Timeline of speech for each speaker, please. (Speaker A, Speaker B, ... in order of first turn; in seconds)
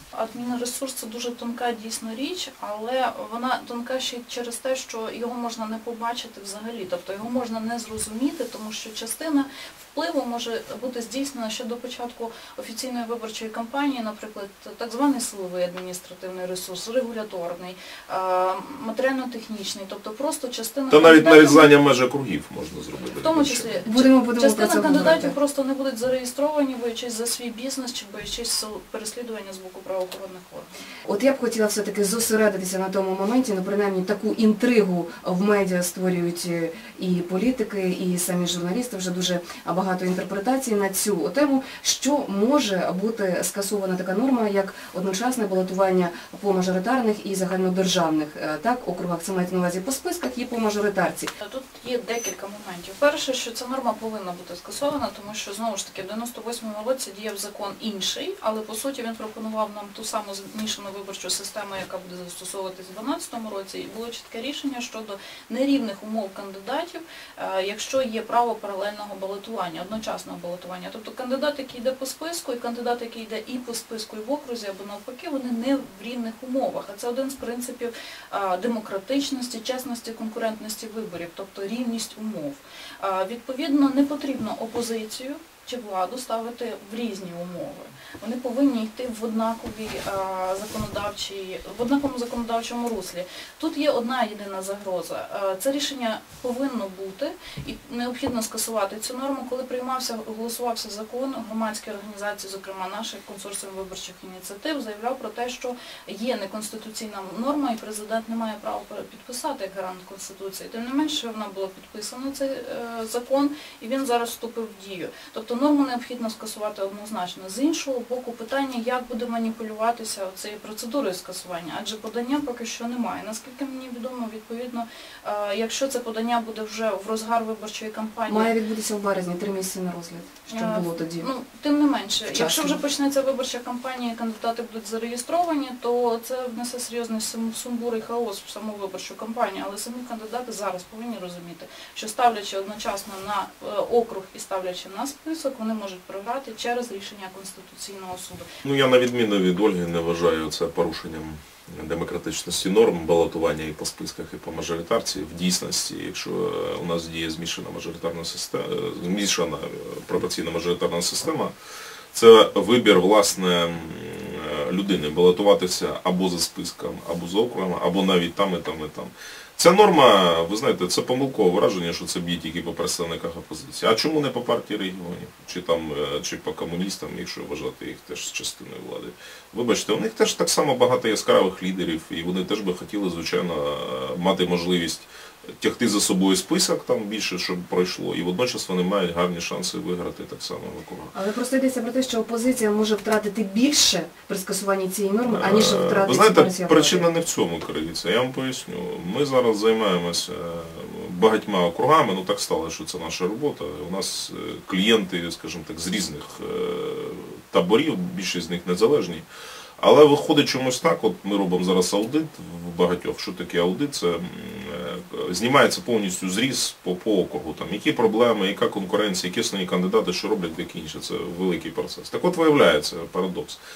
Speaker A: 0.1-21.7, 23.2-30.8, 51.4-128.5, 130.5-148.5
Speaker B: 20.9-23.8, 148.7-161.5, 162.1-185.1, 185.6-191.1, 195.3-209.2, 209.8-223.6
Speaker C: 23.9-25.3, 31.1-51.3, 128.3-131.3, 132.3-132.8, 191.1-197.1